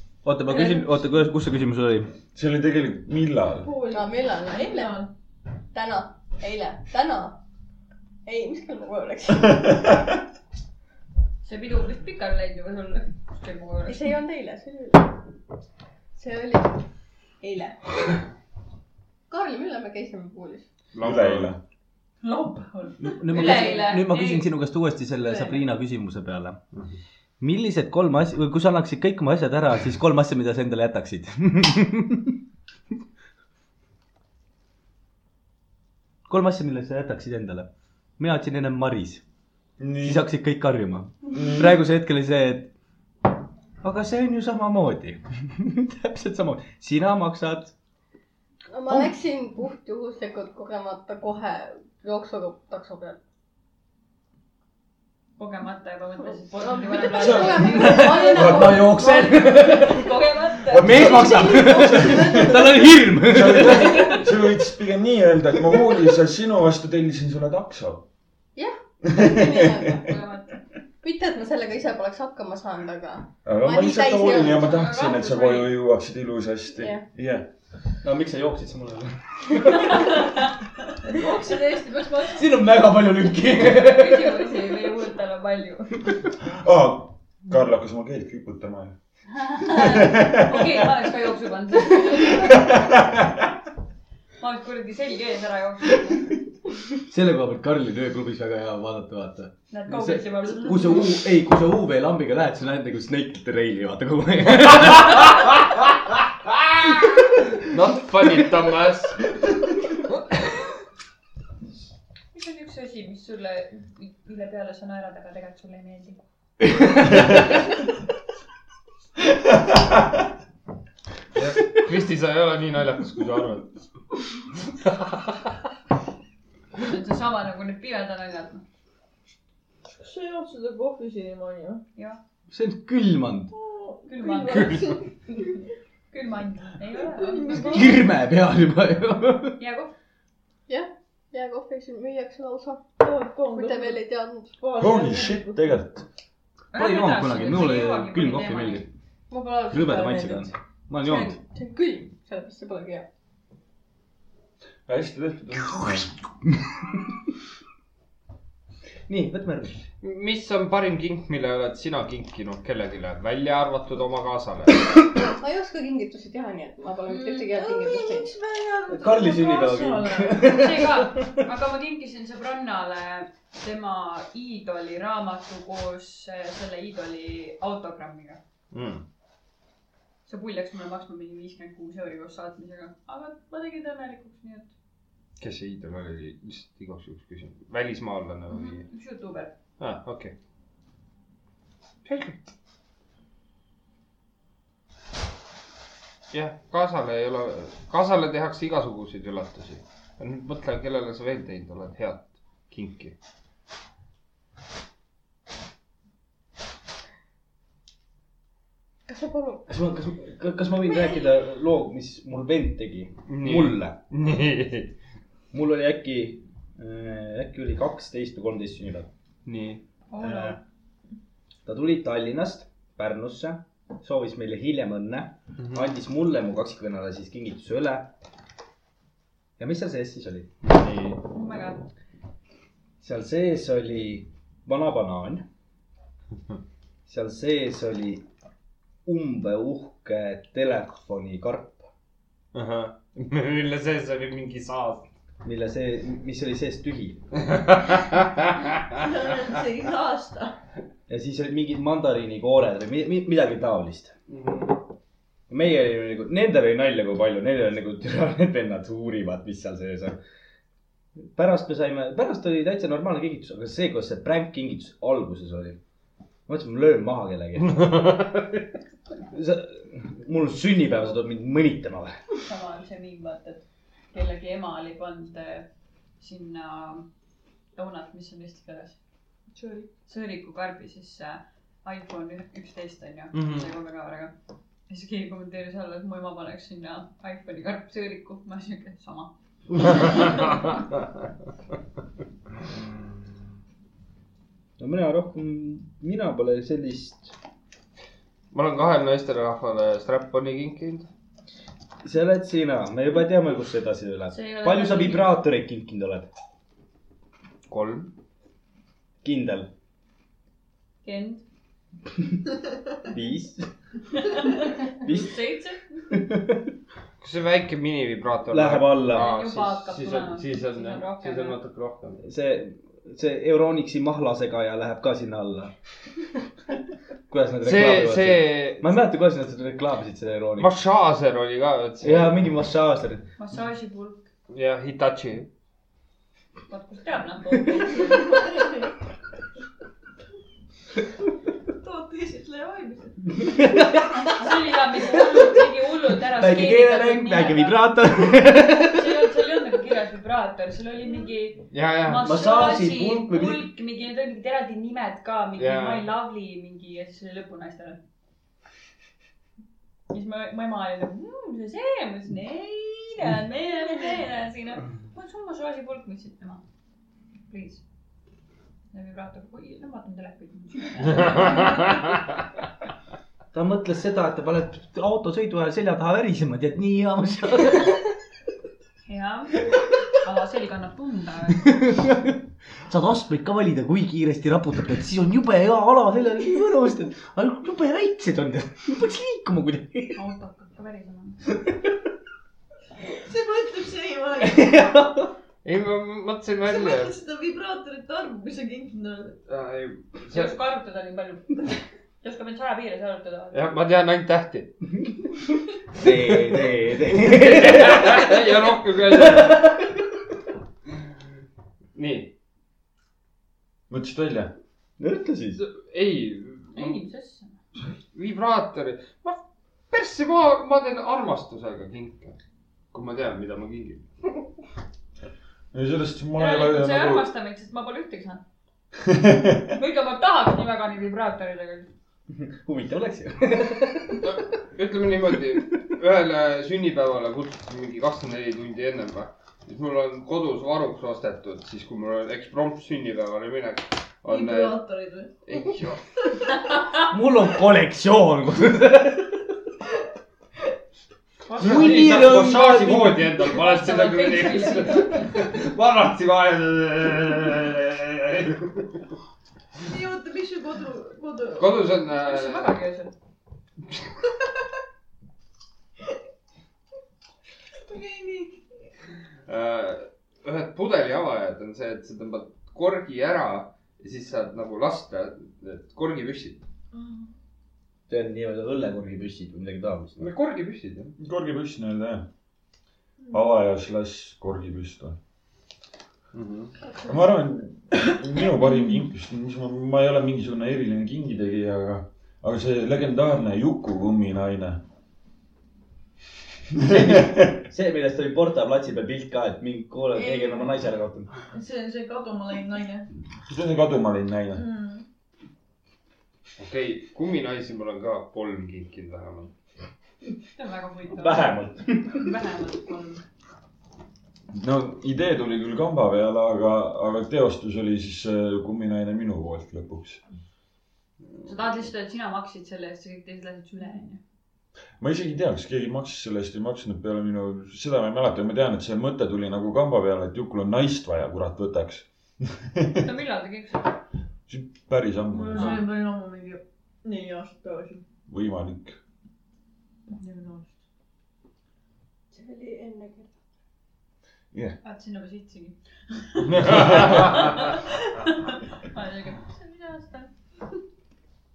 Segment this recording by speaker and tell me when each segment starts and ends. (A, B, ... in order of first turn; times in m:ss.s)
0:00.2-0:02.1 A
0:00.5-0:01.1 B
0:02.3-0:03.7 C
0:03.6-0:05.1 D
0:03.9-0:05.0 E
0:05.7-0:07.4 E
0:08.2-0:10.0 E
0:11.4-0:14.2 B
0:13.8-0:15.2 E
0:16.1-0:16.8 E
0:17.4-0:17.9 E
0:19.3-0:20.6 E
0:20.9-0:21.5 F
0:21.0-0:21.6 C
0:22.2-0:24.5 B
0:23.0-0:26.6 A
0:25.2-0:25.6 B
0:27.4-0:32.3 A
0:36.3-0:39.2 A
0:39.8-0:40.2 C
0:40.0-0:42.7 A
0:41.3-0:41.7 C
0:43.8-0:47.7 A
0:48.7-0:53.2 E
0:55.4-1:01.3 B
0:56.6-0:59.4 E
0:57.4-1:00.1 A
0:58.3-0:58.9 C
1:00.7-1:02.6 C
1:00.7-1:04.3 A
1:01.1-1:02.4 E
1:01.6-1:02.8 D
1:03.2-1:08.0 C
1:08.6-1:10.1 E
1:09.0-1:10.0 C
1:10.0-1:10.6 B
1:11.0-1:14.8 E
1:13.4-1:17.5 C
1:14.3-1:15.7 B
1:16.8-1:17.0 E
1:18.0-1:20.5 A
1:19.8-1:20.4 B
1:21.0-1:22.5 D
1:22.3-1:24.4 A
1:23.6-1:26.0 B
1:26.4-1:28.9 C
1:29.3-1:33.0 B
1:29.6-1:30.9 C
1:32.4-1:33.4 C
1:34.4-1:36.4 B
1:36.9-1:46.2 A
1:39.7-1:41.2 B
1:47.6-1:49.2 F
1:52.3-1:56.2 B
1:56.7-1:57.2 A
2:01.3-2:03.7 F
2:04.8-2:05.2 F
2:06.8-2:08.6 B
2:10.0-2:11.8 D
2:12.5-2:13.5 A
2:13.5-2:15.1 D
2:14.0-2:14.9 B
2:14.5-2:15.0 F
2:16.1-2:18.0 B
2:17.2-2:17.9 D
2:17.5-2:19.6 A
2:19.6-2:19.9 B
2:20.7-2:22.9 E
2:23.0-2:24.0 D
2:23.5-2:24.5 E
2:24.6-2:25.8 D
2:24.8-2:26.0 C
2:26.7-2:28.8 B
2:26.7-2:28.9 A
2:29.3-2:30.5 E
2:29.7-2:31.4 A
2:31.0-2:31.4 B
2:31.5-2:33.1 E
2:34.9-2:36.1 C
2:36.4-2:37.1 A
2:39.1-2:39.8 A
2:40.0-2:44.9 F
2:45.2-2:48.3 E
2:47.1-2:50.5 D
2:48.9-2:51.4 A
2:50.4-2:58.4 B
2:58.7-2:59.0 F
3:00.2-3:04.7 B
3:05.4-3:08.8 F
3:08.5-3:09.5 B
3:09.8-3:10.3 F
3:12.0-3:12.5 F
3:16.3-3:23.2 F
3:29.1-3:29.6 E
3:29.7-3:34.0 A
3:33.3-3:34.9 F
3:35.5-3:39.1 A
3:39.4-3:39.8 F
3:40.1-3:40.6 B
3:40.2-3:40.6 A
3:41.6-3:48.1 A
3:45.6-3:45.9 F
3:49.6-3:50.5 A
3:50.6-3:51.2 F
3:51.3-3:51.8 B
3:53.0-3:55.4 A
3:57.1-3:58.2 A
3:59.0-4:01.9 A
4:02.5-4:05.0 F
4:05.4-4:07.2 A
4:07.4-4:08.6 F
4:09.0-4:10.6 D
4:11.1-4:14.2 A
4:14.3-4:14.8 F
4:15.5-4:20.2 A
4:21.3-4:25.8 A
4:26.5-4:28.2 A
4:27.7-4:28.5 F
4:29.3-4:32.2 A
4:32.4-4:35.7 B
4:36.2-4:37.1 B
4:37.8-4:39.0 B
4:39.5-4:39.9 D
4:40.0-4:44.3 B
4:43.3-4:43.7 F
4:44.9-4:49.3 B
4:49.9-4:50.5 F
4:50.0-4:50.6 B
4:54.8-4:57.3 A
4:58.5-5:01.1 F
5:02.0-5:06.3 A
5:04.3-5:05.4 B
5:07.7-5:08.1 F
5:09.2-5:09.7 A
5:11.0-5:11.4 B
5:13.1-5:13.7 A
5:14.1-5:15.9 B
5:15.0-5:15.3 A
5:16.1-5:16.6 A
5:17.2-5:22.2 F
5:18.5-5:19.3 A
5:19.1-5:21.6 B
5:22.2-5:25.7 A
5:27.3-5:30.7 A
5:27.6-5:28.8 F
5:30.6-5:32.3 F
5:32.0-5:33.2 A
5:33.4-5:34.2 B
5:34.5-5:35.5 F
5:36.7-5:38.6 B
5:38.4-5:38.8 D
5:41.7-5:43.4 D
5:43.4-5:44.3 A
5:44.2-5:58.0 B
5:45.2-5:45.5 A
5:46.2-5:49.2 A
5:51.7-5:52.3 F
5:52.2-5:53.6 A
5:55.6-5:56.1 F
6:00.1-6:06.6 B
6:03.8-6:04.2 D
6:07.5-6:07.8 B
6:08.9-6:12.2 B
6:11.2-6:11.7 F
6:13.5-6:18.1 A
6:19.0-6:21.6 B
6:21.6-6:30.2 A
6:30.1-6:31.4 B
6:31.5-6:31.9 A
6:33.1-6:34.9 D
6:34.4-6:35.3 A
6:35.6-6:37.2 F
6:36.6-6:39.4 D
6:39.5-6:40.5 F
6:40.3-6:43.7 B
6:43.5-6:44.7 F
6:45.9-6:48.5 A
6:47.2-6:49.7 F
6:49.0-6:50.0 A
6:51.9-6:52.3 F
6:53.9-6:54.5 C
6:55.0-6:55.6 A
6:55.6-6:57.0 F
6:56.7-6:57.5 B
6:58.1-6:59.4 F
6:59.9-7:02.4 F
7:02.9-7:04.4 F
7:05.7-7:07.3 C
7:06.4-7:08.4 B
7:09.0-7:09.7 C
7:09.7-7:11.9 B
7:12.3-7:14.4 A
7:14.2-7:24.8 F
7:24.3-7:25.3 D
7:25.4-7:26.0 F
7:27.0-7:29.5 A
7:31.5-7:32.3 B
7:31.6-7:39.0 F
7:31.6-7:33.3 A
7:33.4-7:35.4 B
7:39.8-7:42.0 D
7:41.6-7:42.8 F
7:42.1-7:43.1 B
7:47.8-7:48.7 D
7:49.5-7:56.6 F
7:56.9-7:57.3 D
7:58.1-8:00.3 A
8:00.2-8:01.2 F
8:01.2-8:02.3 C
8:03.3-8:05.2 C
8:06.3-8:06.7 F
8:07.1-8:14.8 C
8:16.7-8:17.6 C
8:16.8-8:21.3 A
8:20.1-8:20.8 D
8:21.5-8:23.1 D
8:23.5-8:24.6 C
8:24.5-8:25.0 D
8:26.6-8:29.5 F
8:30.6-8:33.2 B
8:31.2-8:32.3 A
8:34.5-8:40.2 C
8:41.4-8:44.2 B
8:45.0-8:53.0 C
8:53.0-8:54.0 B
8:54.5-8:55.8 C
8:55.3-8:58.0 D
8:58.3-8:59.0 C
9:00.2-9:00.7 D
9:02.3-9:03.3 E
9:04.8-9:10.3 B
9:06.5-9:07.3 C
9:06.8-9:07.3 F